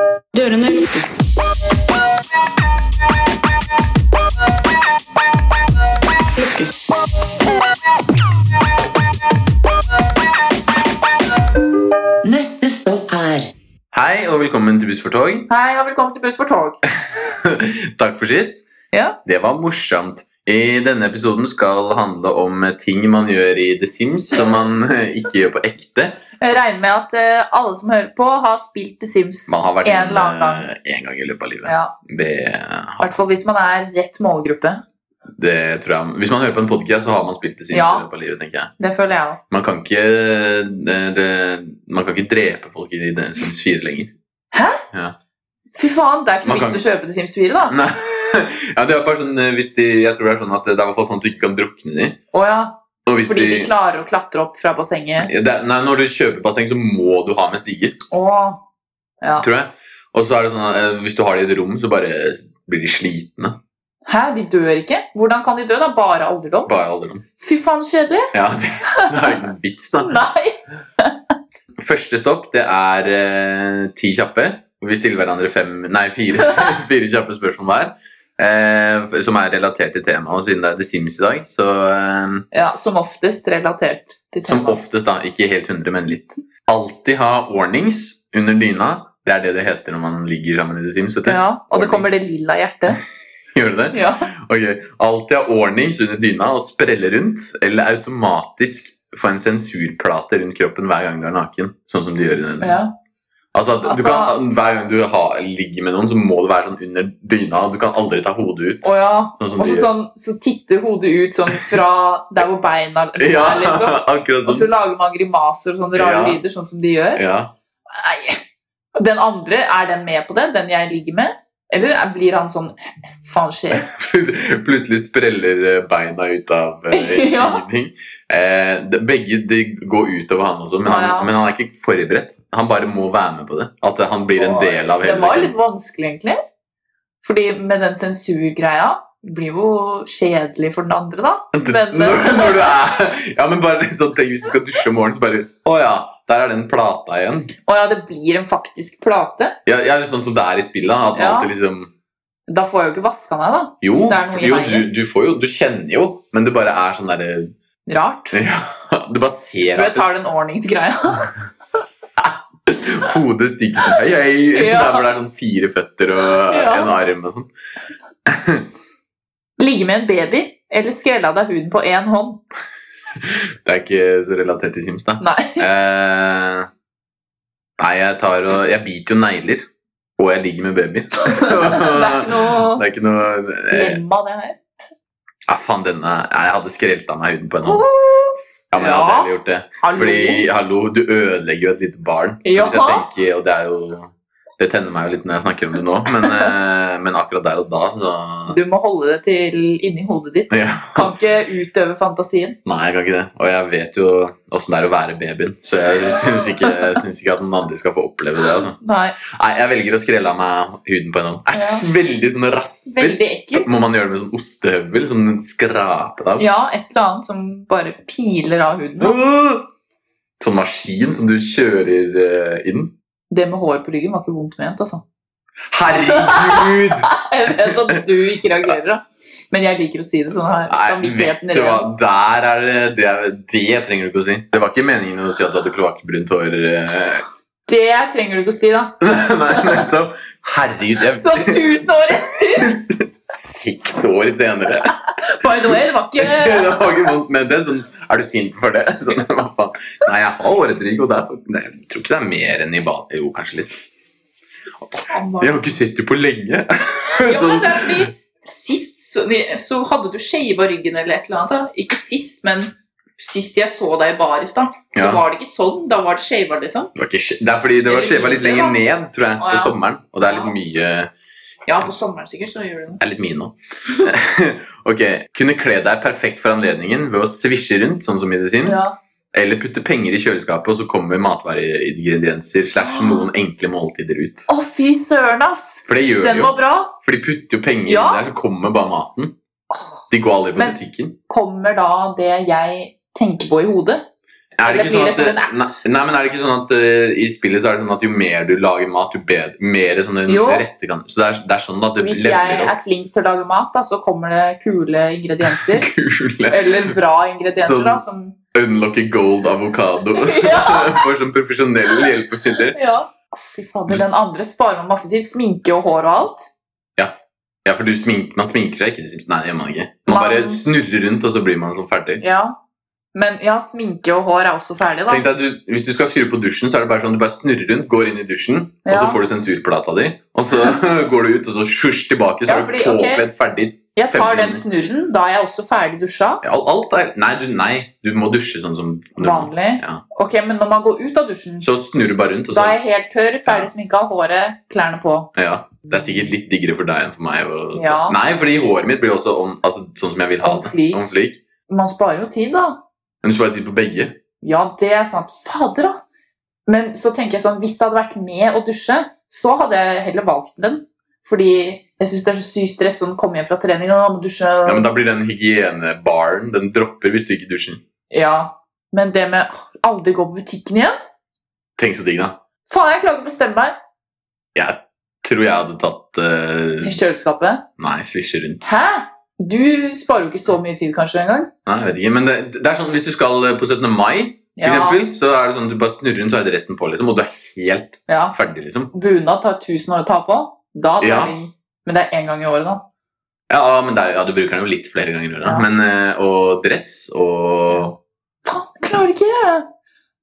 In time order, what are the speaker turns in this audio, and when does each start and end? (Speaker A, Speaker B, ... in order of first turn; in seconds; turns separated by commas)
Speaker A: 0.3-1.2, Speaker A: 6.4-6.9, Speaker A: 12.2-13.5, Speaker B: 13.9-15.5, Speaker C: 15.5-16.8, Speaker B: 17.1-18.7, Speaker C: 18.9-19.2, Speaker B: 19.2-26.3, Speaker C: 26.4-30.7, Speaker B: 29.5-33.1, Speaker C: 31.6-31.9, Speaker C: 33.0-34.8, Speaker B: 35.4-38.8, Speaker C: 37.7-38.1, Speaker C: 38.8-39.4, Speaker B: 39.5-44.1, Speaker C: 44.5-44.8, Speaker B: 44.9-45.2, Speaker C: 45.8-47.8, Speaker B: 46.5-46.8, Speaker B: 47.7-52.2, Speaker C: 52.3-55.3, Speaker B: 53.1-53.7, Speaker B: 55.2-58.0, Speaker C: 58.1-58.6, Speaker B: 59.4-63.6, Speaker C: 64.1-66.7, Speaker B: 66.7-67.2, Speaker C: 67.4-68.3, Speaker B: 68.3-70.2, Speaker C: 68.9-69.4, Speaker C: 70.0-71.3, Speaker B: 71.8-82.5, Speaker C: 82.5-84.8, Speaker B: 84.4-92.1, Speaker C: 91.3-93.0, Speaker B: 93.5-102.8, Speaker C: 93.9-94.3, Speaker C: 102.6-102.9, Speaker B: 103.5-109.9, Speaker C: 103.8-104.4, Speaker C: 108.8-117.2, Speaker B: 113.2-114.7, Speaker B: 116.0-116.4, Speaker B: 117.2-117.5, Speaker C: 117.9-118.4, Speaker C: 119.0-123.9, Speaker B: 123.7-135.6, Speaker C: 126.9-127.6, Speaker C: 130.9-131.3, Speaker C: 134.4-136.4, Speaker C: 137.2-142.8, Speaker B: 141.5-147.5, Speaker C: 147.7-149.6, Speaker B: 149.7-151.9, Speaker C: 151.1-151.5, Speaker C: 152.5-154.9, Speaker B: 153.8-157.5, Speaker C: 157.9-158.4, Speaker B: 158.3-160.1, Speaker C: 159.7-161.3, Speaker B: 162.2-167.5, Speaker C: 164.5-165.1, Speaker C: 166.5-166.9, Speaker B: 168.3-168.7, Speaker C: 169.6-172.4, Speaker B: 173.2-176.7, Speaker C: 175.2-175.7, Speaker B: 177.8-184.0, Speaker C: 181.3-182.9, Speaker C: 183.7-184.6, Speaker B: 185.5-187.8, Speaker C: 187.6-189.3, Speaker B: 188.7-198.6, Speaker C: 189.8-190.5, Speaker C: 192.4-193.1, Speaker C: 196.2-196.5, Speaker C: 198.5-202.6, Speaker B: 200.5-201.1, Speaker B: 202.7-216.5, Speaker C: 208.8-209.2, Speaker C: 211.5-211.9, Speaker C: 212.9-213.7, Speaker C: 216.4-219.2, Speaker B: 219.0-219.7, Speaker B: 220.4-222.9, Speaker C: 223.3-225.0, Speaker B: 225.7-228.0, Speaker C: 225.9-231.8, Speaker B: 230.7-237.2, Speaker C: 237.7-239.9, Speaker B: 239.0-241.7, Speaker C: 241.1-242.8, Speaker B: 242.6-245.0, Speaker C: 245.2-247.1, Speaker B: 246.2-253.8, Speaker C: 255.0-255.8, Speaker B: 255.4-258.1, Speaker C: 257.2-266.9, Speaker B: 264.9-265.2, Speaker B: 266.9-271.1, Speaker C: 267.9-268.8, Speaker C: 269.4-270.6, Speaker C: 271.7-273.0, Speaker B: 273.0-284.5, Speaker C: 278.6-279.0, Speaker C: 282.8-283.3, Speaker C: 284.5-286.9, Speaker B: 285.9-289.4, Speaker C: 287.9-288.2, Speaker C: 289.7-290.0, Speaker B: 290.1-291.2, Speaker C: 291.3-294.1, Speaker B: 294.6-302.8, Speaker C: 294.6-295.5, Speaker C: 300.3-300.7, Speaker C: 302.0-305.9, Speaker B: 305.5-306.9, Speaker C: 306.5-308.4, Speaker B: 307.6-308.0, Speaker B: 308.5-312.8, Speaker C: 310.2-311.1, Speaker C: 312.7-316.5, Speaker B: 317.0-322.2, Speaker C: 320.1-320.7, Speaker C: 322.2-322.6, Speaker C: 323.1-325.3, Speaker B: 325.1-334.6, Speaker C: 328.9-329.2, Speaker C: 332.5-333.3, Speaker C: 333.9-336.4, Speaker B: 336.4-340.0, Speaker C: 339.2-341.7, Speaker B: 341.6-342.8, Speaker C: 342.5-345.3, Speaker B: 345.4-351.4, Speaker C: 347.7-348.2, Speaker C: 350.4-351.1, Speaker C: 351.7-352.8, Speaker B: 353.2-354.2, Speaker C: 354.4-356.0, Speaker C: 356.7-364.9, Speaker B: 364.6-367.8, Speaker C: 368.1-371.0, Speaker B: 371.8-372.4, Speaker C: 372.7-373.8, Speaker B: 374.6-377.0, Speaker C: 376.8-377.7, Speaker B: 377.8-378.7, Speaker C: 378.6-381.5, Speaker B: 381.7-388.9, Speaker C: 384.6-385.0, Speaker C: 388.1-388.4, Speaker C: 388.9-392.9, Speaker B: 391.0-391.4, Speaker B: 393.5-397.9, Speaker C: 398.4-399.7